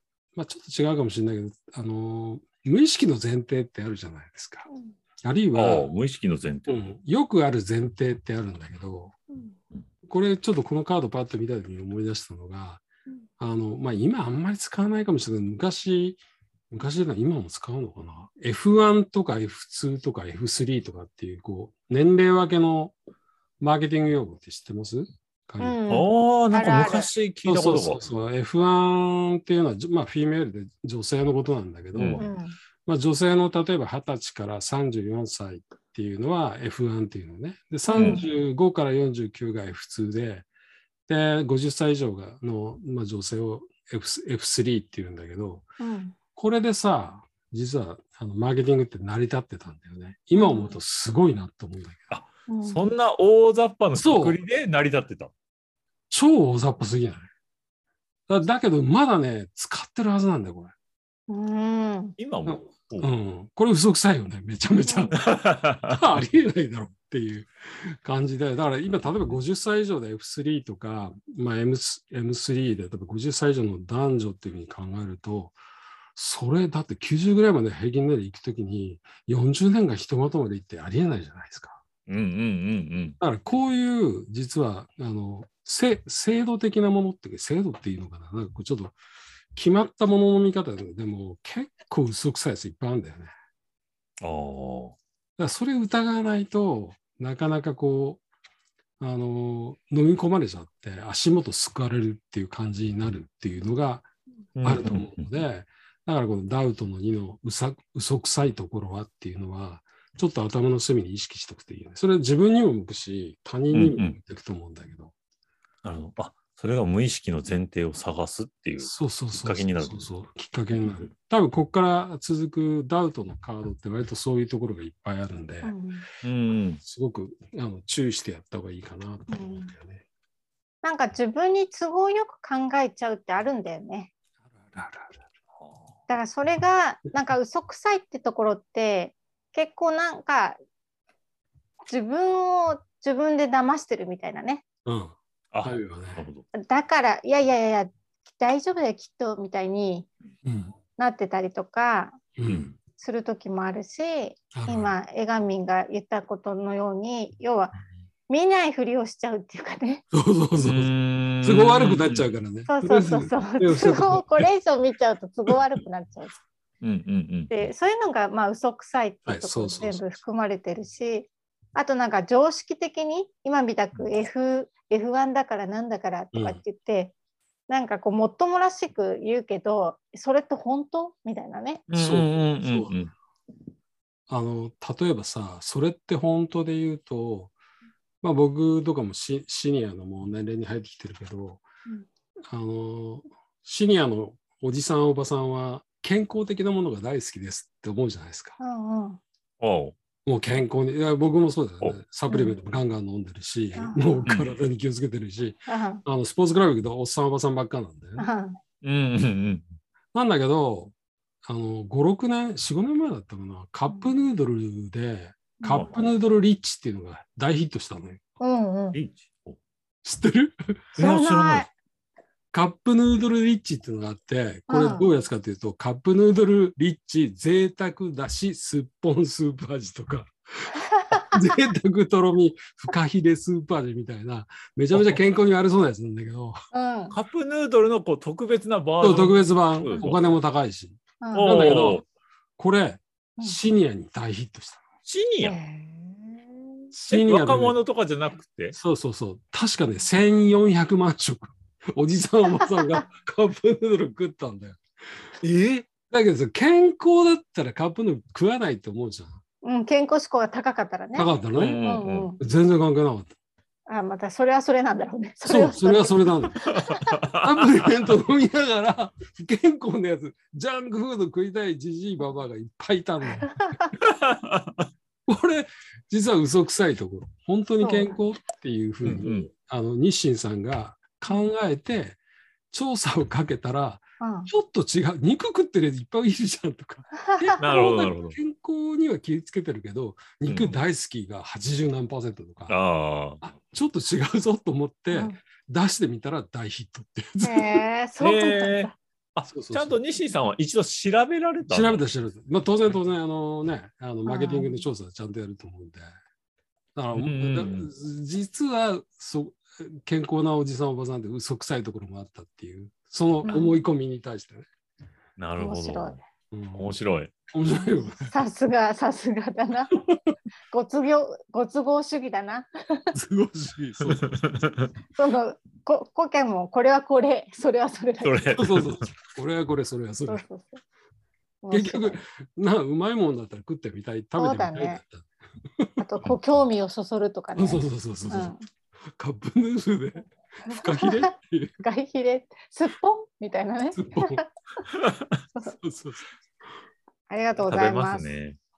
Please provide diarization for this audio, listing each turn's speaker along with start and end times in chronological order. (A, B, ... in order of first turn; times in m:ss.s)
0:00.4-0:04.7 A
0:04.7-0:05.0 B
0:05.2-0:05.9 A
0:05.5-0:06.9 C
0:06.7-0:09.2 A
0:10.1-0:12.8 A
0:13.4-0:23.0 A
0:23.6-0:25.8 A
0:25.6-0:27.1 B
0:25.9-0:28.1 C
0:27.4-0:32.3 A
0:31.9-0:32.2 C
0:32.2-0:32.6 B
0:32.8-0:40.5 A
0:37.9-0:38.3 B
0:37.9-0:38.2 C
0:41.1-0:45.7 A
0:45.8-0:46.2 B
0:46.4-0:52.1 A
0:50.3-0:50.8 B
0:52.1-0:55.3 C
0:52.5-0:52.8 B
0:54.0-0:54.4 A
0:56.1-0:57.3 A
0:58.3-1:00.7 A
1:01.3-1:02.2 B
1:02.2-1:03.1 C
1:02.5-1:05.2 A
1:04.9-1:05.1 B
1:05.2-1:06.0 C
1:05.9-1:15.6 A
1:16.2-1:21.8 A
1:22.1-1:23.2 C
1:23.2-1:29.0 A
1:29.6-1:33.3 A
1:34.2-1:35.0 C
1:35.4-1:38.2 A
1:39.0-1:44.1 A
1:44.6-1:45.3 C
1:44.6-1:55.1 A
1:53.7-1:54.2 C
1:55.8-2:00.1 C
1:58.8-2:05.7 A
2:00.8-2:01.1 C
2:05.6-2:06.1 B
2:06.2-2:06.8 C
2:06.8-2:10.0 A
2:09.3-2:09.7 B
2:10.8-2:14.1 B
2:14.5-2:15.2 A
2:15.6-2:15.9 C
2:16.1-2:20.6 B
2:21.8-2:24.6 B
2:24.9-2:26.2 A
2:25.5-2:26.4 C
2:26.6-2:30.1 B
2:30.4-2:30.8 A
2:31.0-2:32.2 B
2:32.4-2:32.8 A
2:33.0-2:37.8 B
2:34.5-2:34.9 A
2:38.3-2:40.0 B
2:40.1-2:44.5 A
2:40.6-2:42.3 C
2:42.7-2:46.4 B
2:46.8-2:47.5 C
2:47.5-2:57.1 B
2:49.3-2:50.1 A
2:56.3-2:56.6 A
2:57.7-3:01.9 B
3:01.9-3:03.1 C
3:01.9-3:03.0 A
3:04.3-3:07.5 A
3:08.2-3:11.6 A
3:12.5-3:18.6 A
3:18.6-3:19.2 B
3:19.6-3:20.0 C
3:20.2-3:28.3 A
3:22.3-3:22.6 B
3:23.8-3:24.2 B
3:24.3-3:24.6 C
3:25.7-3:26.0 B
3:28.2-3:28.6 B
3:28.8-3:29.7 C
3:30.1-3:30.9 A
3:31.4-3:38.2 A
3:35.7-3:36.0 C
3:38.4-3:39.0 B
3:38.9-3:39.6 C
3:40.0-3:40.8 A
3:41.0-3:41.7 C
3:41.0-3:41.7 B
3:42.5-3:56.6 A
3:44.7-3:45.1 B
3:51.1-3:51.4 B
3:54.9-3:55.2 C
3:56.7-3:57.2 B
3:57.1-4:00.3 C
3:59.0-4:02.0 A
4:01.2-4:01.5 B
4:01.3-4:02.0 C
4:02.6-4:04.8 A
4:05.0-4:05.6 C
4:05.4-4:06.5 B
4:06.9-4:07.8 A
4:07.1-4:08.8 C
4:08.7-4:14.8 A
4:15.4-4:15.8 C
4:16.1-4:19.4 A
4:19.6-4:21.3 B
4:21.2-4:21.8 A
4:21.6-4:22.3 C
4:21.8-4:22.4 B
4:22.4-4:23.3 A
4:23.9-4:27.0 B
4:25.4-4:26.8 A
4:27.3-4:33.6 A
4:33.4-4:33.9 B
4:34.0-4:34.8 C
4:35.3-4:42.2 A
4:37.8-4:38.2 B
4:39.0-4:39.5 C
4:42.7-4:52.8 A
4:44.2-4:44.5 B
4:47.3-4:47.7 B
4:47.6-4:48.4 C
4:50.5-4:50.8 C
4:52.7-4:53.4 C
4:53.4-4:57.8 A
4:55.1-4:55.4 B
4:57.4-4:59.0 B
4:58.2-5:02.0 C
4:59.4-5:00.0 A
5:01.7-5:06.1 A
5:04.3-5:04.8 B
5:07.0-5:14.7 A
5:07.2-5:07.9 C
5:13.4-5:13.8 B
5:15.4-5:16.2 C
5:15.6-5:16.2 B
5:16.5-5:17.0 A
5:16.8-5:17.3 C
5:17.5-5:18.3 A
5:18.2-5:19.9 B
5:20.7-5:23.1 B
5:23.1-5:24.3 A
5:24.0-5:24.9 C
5:25.2-5:28.6 B
5:28.2-5:29.1 C
5:28.6-5:30.4 A
5:30.3-5:30.8 B
5:31.6-5:32.2 B
5:31.7-5:35.3 A
5:34.4-5:35.0 B
5:35.8-5:36.3 A
5:36.0-5:38.6 B
5:37.6-5:38.5 A
5:39.1-5:41.8 A
5:40.7-5:41.2 B
5:41.8-5:44.4 B
5:44.0-5:44.4 A
5:44.9-5:45.2 C
5:45.8-5:46.3 A
5:47.3-5:48.3 B
5:47.6-5:48.6 C